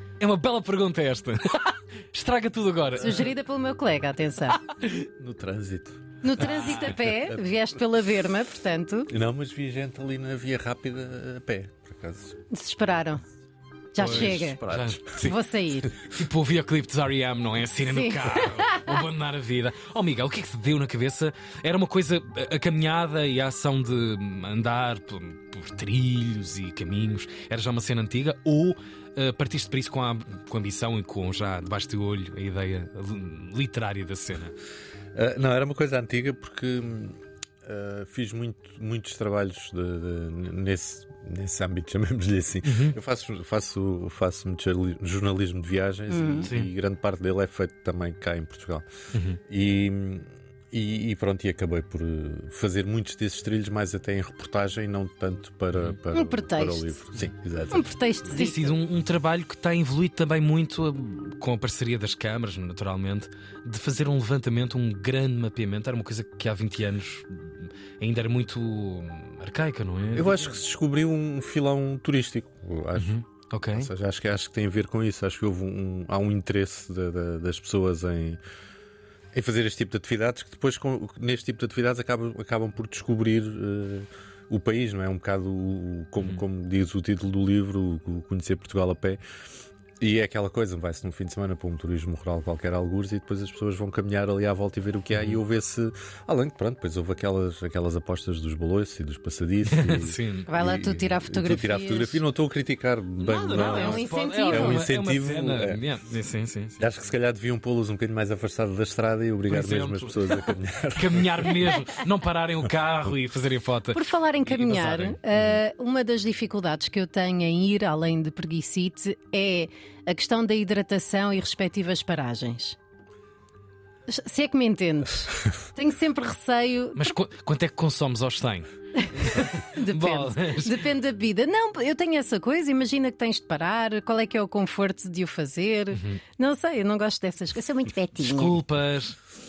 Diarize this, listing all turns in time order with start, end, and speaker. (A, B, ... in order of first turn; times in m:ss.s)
0:00.2-0:03.3 A
0:03.0-0:04.6 B
0:04.7-0:05.1 A
0:05.2-0:07.4 C
0:06.2-0:09.1 B
0:06.4-0:07.0 A
0:09.1-0:12.4 C
0:12.5-0:13.2 B
0:13.9-0:14.6 B
0:14.0-0:15.4 A
0:14.0-0:15.3 C
0:15.2-0:15.9 B
0:16.0-0:34.6 A
0:17.8-0:19.0 B
0:35.1-0:48.9 C
0:42.6-0:43.0 A
0:46.1-0:46.5 B
0:49.1-0:49.4 A
0:49.5-0:58.0 C
0:56.1-0:57.0 B
0:57.7-0:58.8 B
0:58.3-1:10.6 A
1:10.1-1:13.2 C
1:13.0-1:13.9 A
1:13.7-1:18.4 C
1:19.3-1:29.2 C
1:30.0-1:45.8 C
1:35.1-1:35.4 A
1:39.7-1:40.5 A
1:40.5-1:42.2 B
1:43.2-1:46.9 A
1:43.5-1:44.8 B
1:46.8-1:51.8 C
1:49.5-1:55.2 A
1:53.9-2:02.8 B
2:04.1-2:07.2 B
2:07.0-2:10.9 A
2:09.0-2:18.6 B
2:16.0-2:16.2 A
2:18.2-2:19.2 A